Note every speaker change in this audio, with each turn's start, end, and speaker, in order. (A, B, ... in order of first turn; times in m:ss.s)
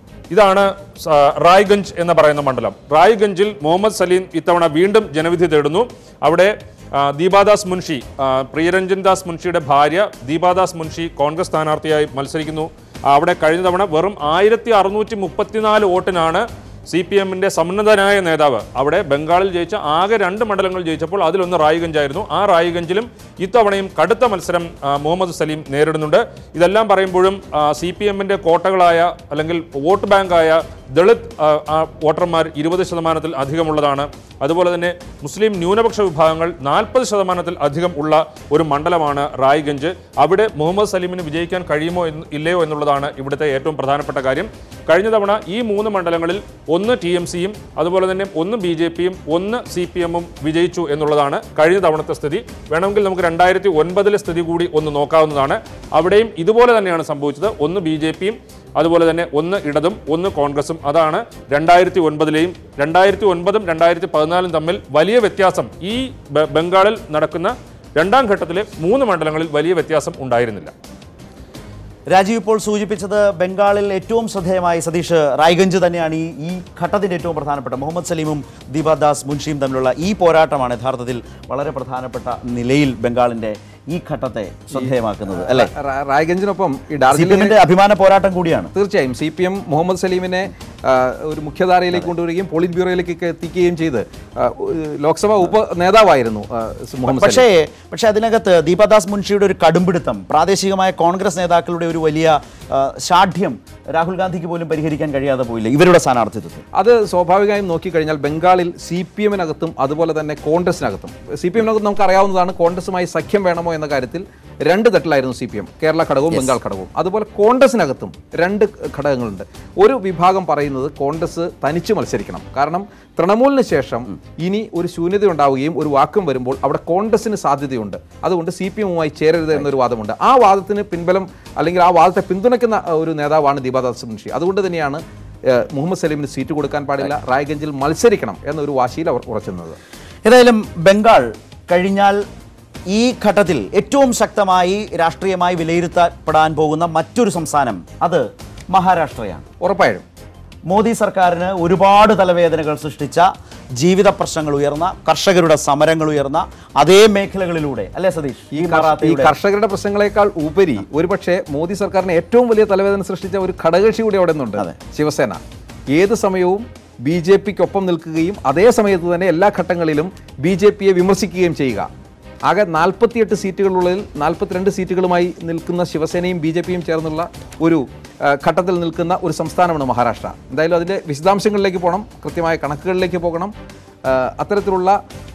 0:00.3-1:10.7 A
1:12.1-1:25.7 B
1:24.7-1:27.6 C
1:27.1-1:28.7 B
1:28.7-1:37.4 C
1:37.1-1:46.6 B
1:46.7-2:19.8 C
2:20.2-2:22.2 B
2:22.9-2:29.4 B
2:29.6-2:30.0 C
2:30.7-2:39.3 B
2:38.5-2:45.4 C
2:45.9-2:51.9 C
2:52.5-3:03.5 C
3:04.0-3:05.0 C